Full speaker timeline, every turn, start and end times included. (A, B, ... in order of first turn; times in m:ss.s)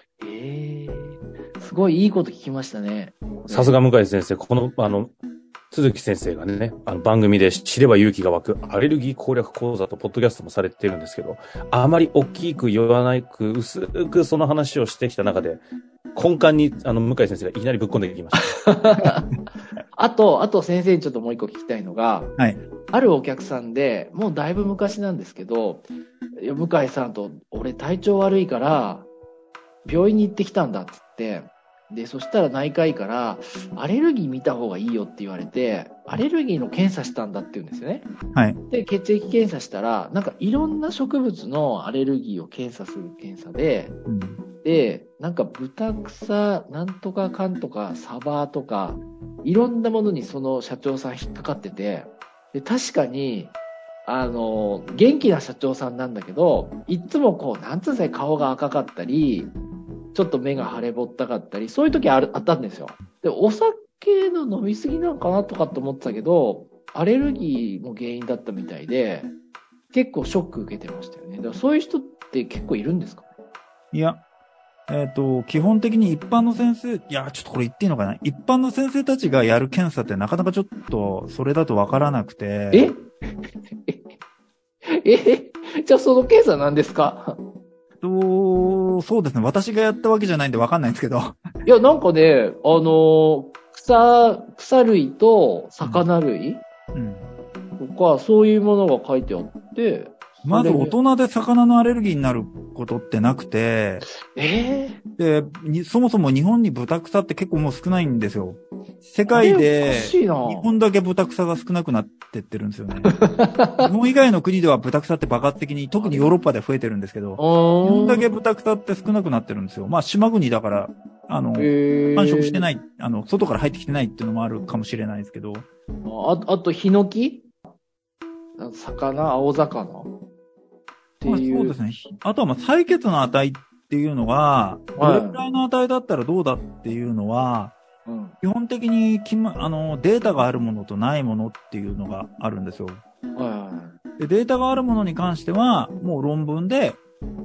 0:00.2-0:03.8 A
0:03.5-0:05.1 B
0:05.7-0:15.6 B
0:16.1-0:18.6 B
0:18.5-0:19.3 A
0:19.9-0:22.3 A
0:22.9-0:29.1 A
0:29.8-0:38.1 A
0:38.3-0:38.6 C
0:38.7-0:44.0 A
0:44.1-0:44.4 C
0:44.6-0:53.5 A
0:54.0-0:59.5 A
1:00.1-1:09.3 A
1:09.9-1:13.3 A
1:13.9-1:14.2 C
1:14.9-1:22.9 C
1:22.7-1:23.1 A
1:24.8-1:27.4 A
1:28.0-1:31.4 C
1:31.6-1:36.6 A
1:35.8-1:36.1 C
1:36.9-1:37.3 C
1:37.8-1:41.0 A
1:40.4-1:44.0 C
1:44.3-1:45.0 A
1:45.2-1:53.1 C
1:49.3-1:50.7 A
1:53.1-1:53.9 A
1:53.8-2:05.7 C
1:56.0-1:56.3 A
1:57.4-1:58.3 A
2:01.6-2:02.6 A
2:06.0-2:07.5 A
2:08.6-2:10.1 A
2:11.2-2:11.8 A
2:11.2-2:17.8 C
2:15.0-2:15.4 A
2:18.0-2:18.4 A
2:18.4-2:23.0 C
2:23.3-2:24.0 A
2:24.2-2:27.0 C